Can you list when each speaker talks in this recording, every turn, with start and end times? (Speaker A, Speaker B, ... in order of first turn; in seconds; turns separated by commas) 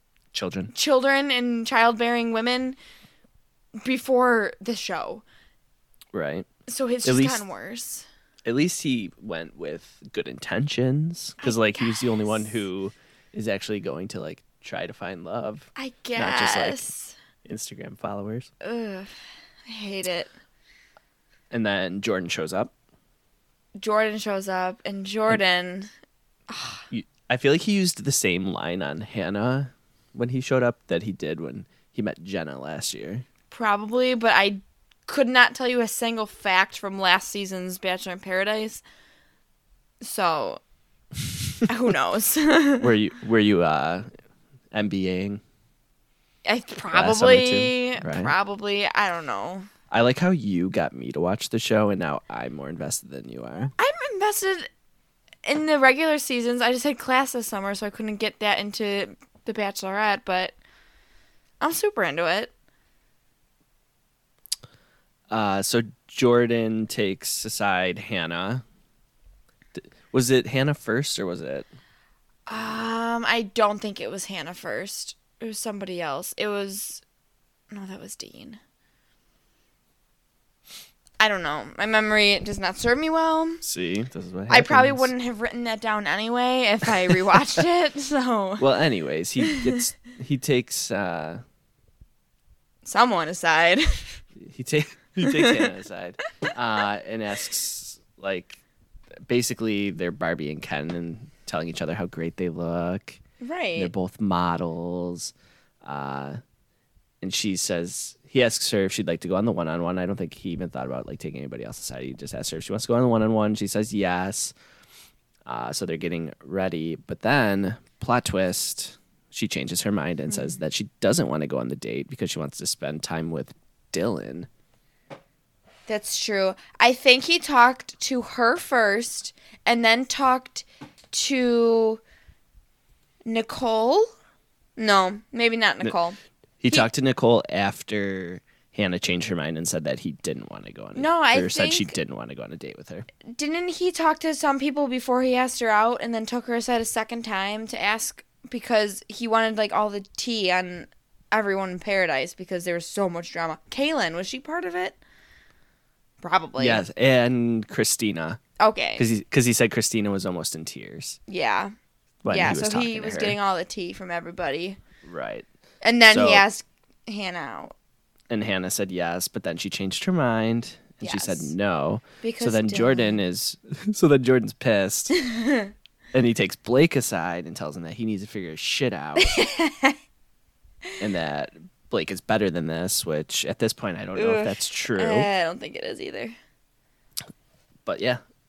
Speaker A: 0.3-0.7, Speaker B: 0.7-2.8, Speaker B: 3.8-5.2, Speaker A: 6.1-6.5, Speaker B: 6.7-8.1, Speaker A: 7.0-7.4, Speaker A: 8.4-16.9, Speaker B: 11.4-12.6, Speaker B: 15.8-17.1, Speaker A: 17.4-18.5, Speaker B: 18.6-19.1, Speaker B: 19.7-20.3, Speaker A: 21.5-22.7, Speaker B: 23.8-25.9, Speaker B: 26.5-26.9, Speaker A: 26.9-33.2, Speaker B: 33.5-38.8, Speaker B: 40.0-40.6, Speaker B: 41.7-42.9, Speaker A: 42.8-44.1, Speaker A: 44.7-45.4, Speaker B: 46.5-49.7, Speaker A: 46.9-48.3, Speaker A: 49.9-53.7, Speaker B: 53.8-54.7, Speaker B: 55.4-60.5, Speaker B: 61.6-62.5, Speaker A: 65.3-68.6, Speaker A: 69.8-71.7, Speaker B: 72.5-77.0, Speaker B: 77.7-78.6, Speaker B: 81.2-83.6, Speaker A: 83.6-85.1, Speaker B: 84.5-88.6, Speaker A: 88.6-91.4, Speaker B: 89.4-89.8, Speaker B: 92.8-94.2, Speaker A: 94.3-98.6, Speaker B: 95.2-95.7, Speaker A: 99.2-103.2, Speaker B: 103.4-103.9, Speaker A: 103.8-106.4, Speaker A: 107.2-114.5, Speaker A: 115.5-124.5, Speaker B: 120.3-120.6, Speaker B: 125.9-132.0, Speaker B: 133.2-134.1, Speaker B: 134.8-136.2, Speaker A: 136.6-143.1, Speaker B: 140.9-141.9, Speaker B: 143.3-155.0, Speaker B: 156.2-156.8, Speaker A: 156.6-158.4, Speaker B: 158.6-159.0, Speaker A: 159.0-161.2, Speaker B: 161.3-161.7, Speaker A: 162.2-163.4, Speaker B: 162.3-164.8, Speaker A: 165.0-165.4, Speaker B: 165.8-167.7, Speaker A: 166.1-166.4, Speaker A: 168.3-175.1, Speaker B: 171.0-171.5, Speaker B: 172.2-173.2, Speaker B: 175.1-175.7, Speaker A: 176.1-179.3, Speaker B: 179.2-179.9, Speaker A: 181.0-185.3, Speaker B: 184.1-186.3, Speaker A: 187.8-188.2